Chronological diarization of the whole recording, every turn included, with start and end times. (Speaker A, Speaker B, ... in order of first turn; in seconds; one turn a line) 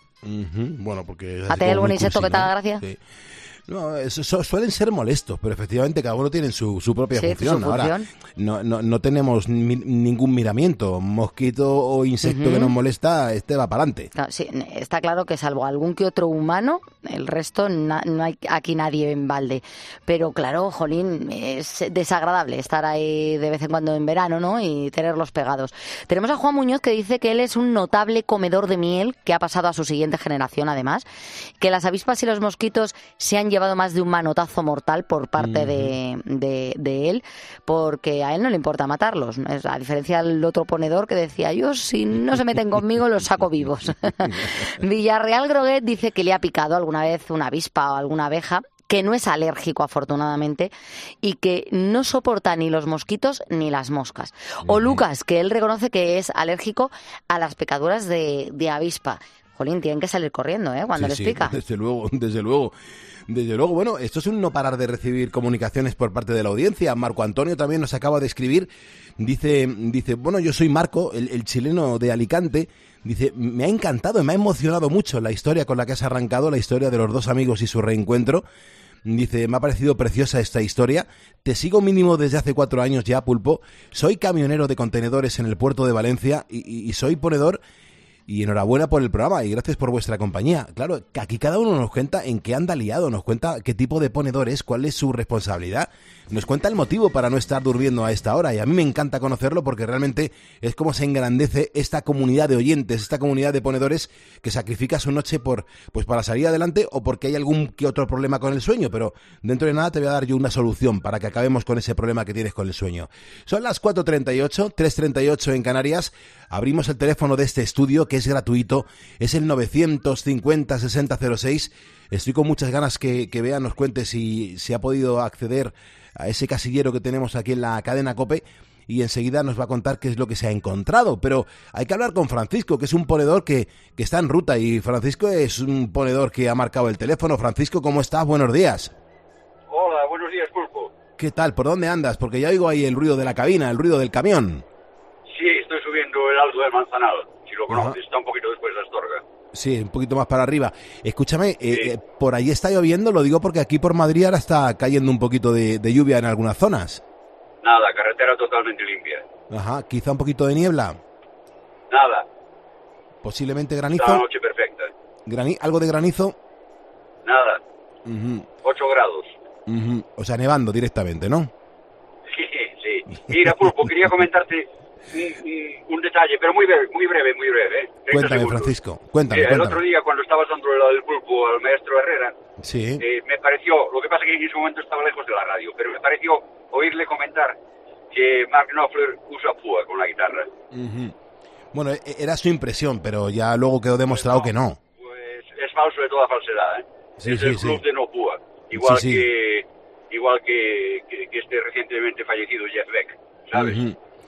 Speaker A: 0.2-3.0
Speaker B: 1.5-2.8
Speaker A: 3.7-14.1
Speaker B: 7.1-8.1
Speaker B: 12.2-12.7
Speaker B: 14.1-31.1
Speaker B: 31.6-50.7
Speaker A: 35.4-35.9
Speaker B: 51.2-61.6
Speaker A: 54.6-55.0
Speaker A: 61.0-62.7
Speaker A: 63.3-78.4
Speaker A: 79.0-87.6
Speaker A: 88.3-138.9
Speaker C: 139.7-140.9
Speaker A: 141.2-144.6
Speaker C: 145.3-149.2
Speaker A: 147.7-148.0
Speaker A: 149.5-157.0
Speaker C: 157.6-159.2
Speaker A: 159.5-161.0
Speaker C: 161.9-162.2
Speaker A: 163.2-164.2
Speaker C: 163.9-164.9
Speaker A: 165.2-166.3
Speaker C: 167.2-167.6
Speaker A: 168.1-168.5
Speaker C: 168.6-169.3
Speaker A: 169.7-171.5
Speaker C: 172.3-178.7
Speaker A: 173.3-173.5
Speaker A: 178.1-179.8
Speaker C: 179.3-182.3
Speaker A: 182.6-183.0
Speaker C: 183.0-187.6
Speaker C: 188.1-190.5
Speaker A: 190.7-191.1
Speaker A: 191.7-194.8
Speaker C: 194.1-194.5
Speaker C: 195.0-203.8
Speaker A: 197.2-197.8
Speaker A: 198.7-199.3
Speaker A: 203.5-203.9